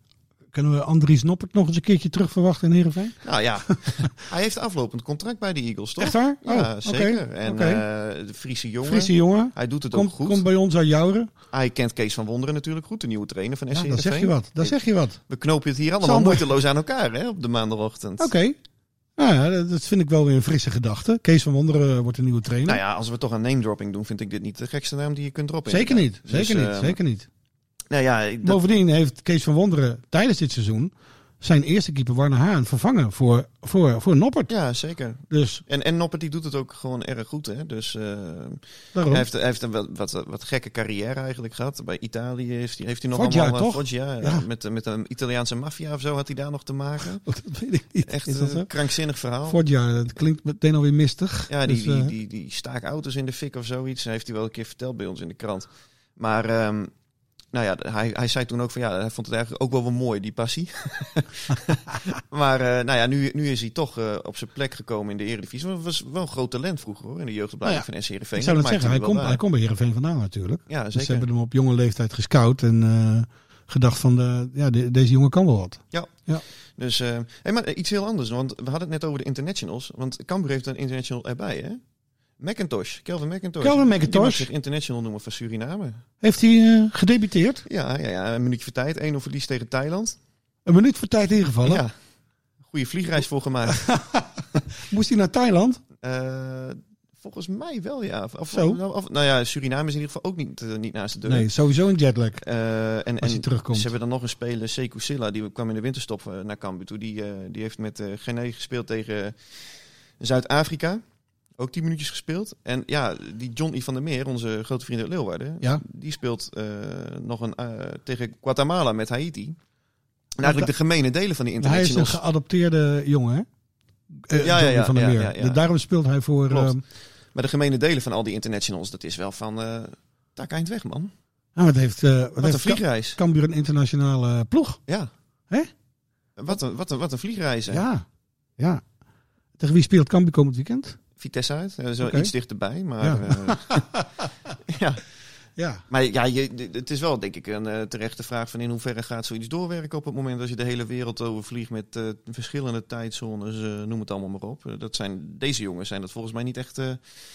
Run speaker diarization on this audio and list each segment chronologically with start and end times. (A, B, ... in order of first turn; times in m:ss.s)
0:00.5-0:03.2 A
0:03.2-0:10.4 B
0:06.0-0:07.8 A
0:08.8-0:11.3 A
0:11.5-0:18.3 B
0:13.7-0:15.2 A
0:16.0-0:16.5 A
0:18.2-0:18.6 A
0:19.2-0:22.8 A
0:22.6-0:27.0 B
0:25.7-0:27.3 A
0:27.9-0:28.6 B
0:28.4-0:34.5 A
0:34.5-0:47.2 B
0:35.3-0:35.6 A
0:38.9-0:39.2 A
0:43.1-0:44.4 A
0:47.2-0:48.7 A
0:48.0-0:49.6 B
0:49.5-0:52.1 A
0:51.5-0:56.9 B
0:57.5-1:09.4 B
1:07.6-1:16.4 A
1:10.7-1:11.2 B
1:16.8-1:21.8 B
1:22.4-1:26.0 B
1:23.6-1:24.5 A
1:26.2-1:27.6 A
1:27.6-1:30.2 B
1:30.6-1:31.8 A
1:31.6-1:31.9 B
1:32.7-1:33.8 B
1:33.8-1:35.8 A
1:36.0-1:41.5 B
1:38.5-1:38.8 A
1:41.2-1:42.4 A
1:42.4-1:49.4 B
1:43.2-1:43.9 A
1:50.2-1:51.0 B
1:51.6-1:59.6 B
2:00.4-2:02.2 B
2:00.4-2:00.7 A
2:01.6-2:03.4 A
2:04.1-2:06.8 A
2:04.4-2:05.6 B
2:06.5-2:06.7 B
2:07.3-2:11.1 B
2:11.6-2:14.8 A
2:12.4-2:13.2 B
2:16.4-2:17.8 B
2:17.7-2:18.0 A
2:19.6-2:21.0 A
2:21.2-2:23.8 B
2:22.0-2:22.3 A
2:23.0-2:24.2 A
2:24.7-2:25.0 B
2:25.6-2:25.8 A
2:25.9-2:37.0 B